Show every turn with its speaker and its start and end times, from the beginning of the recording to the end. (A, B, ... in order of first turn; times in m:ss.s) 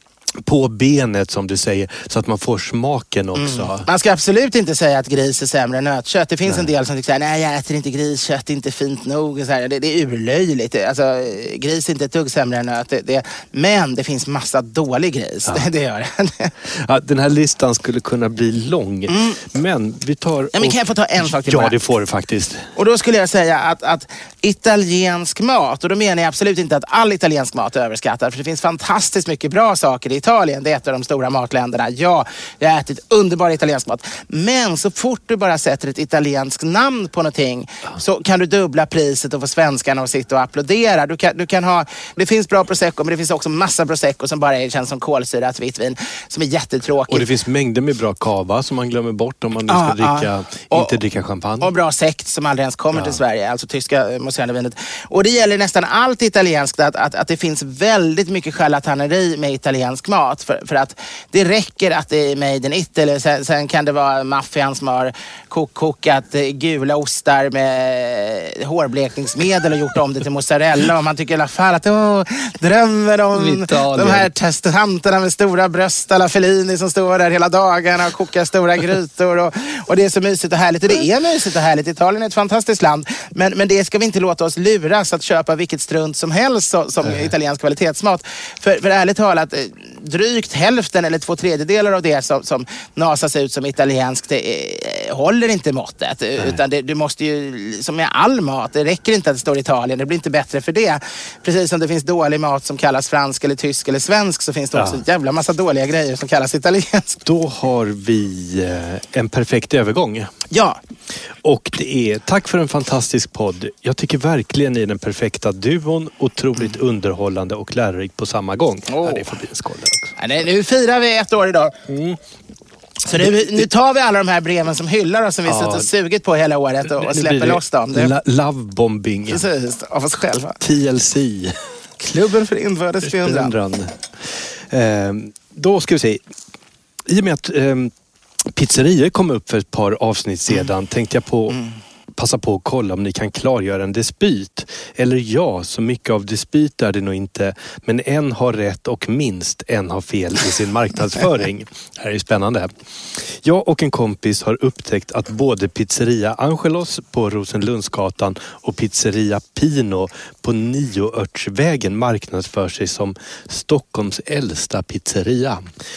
0:00.4-0:03.9 A
0:03.4-0:16.5 B
0:06.5-0:06.7 A
0:16.6-0:22.7 A
0:19.1-0:19.4 B
0:20.6-0:21.8 B
0:22.8-0:47.3 B
0:47.1-0:51.7 A
0:49.7-0:51.0 B
0:51.6-1:47.2 B
0:52.9-0:53.2 A
1:13.3-1:14.3 A
1:27.0-1:27.3 A
1:44.8-1:45.0 A
1:47.2-1:50.3 A
1:50.5-1:50.8 B
1:51.4-2:00.2 A
1:58.9-1:59.3 B
2:00.2-2:01.8 B
2:01.9-2:02.2 A
2:03.1-2:08.1 B
2:03.1-2:03.7 A
2:05.5-2:05.9 A
2:06.9-2:09.4 A
2:09.3-2:10.6 B
2:10.6-2:11.6 A
2:12.0-2:13.6 B
2:13.0-2:16.2 A
2:17.1-2:17.9 A
2:18.5-2:21.6 A
2:22.2-2:45.7 A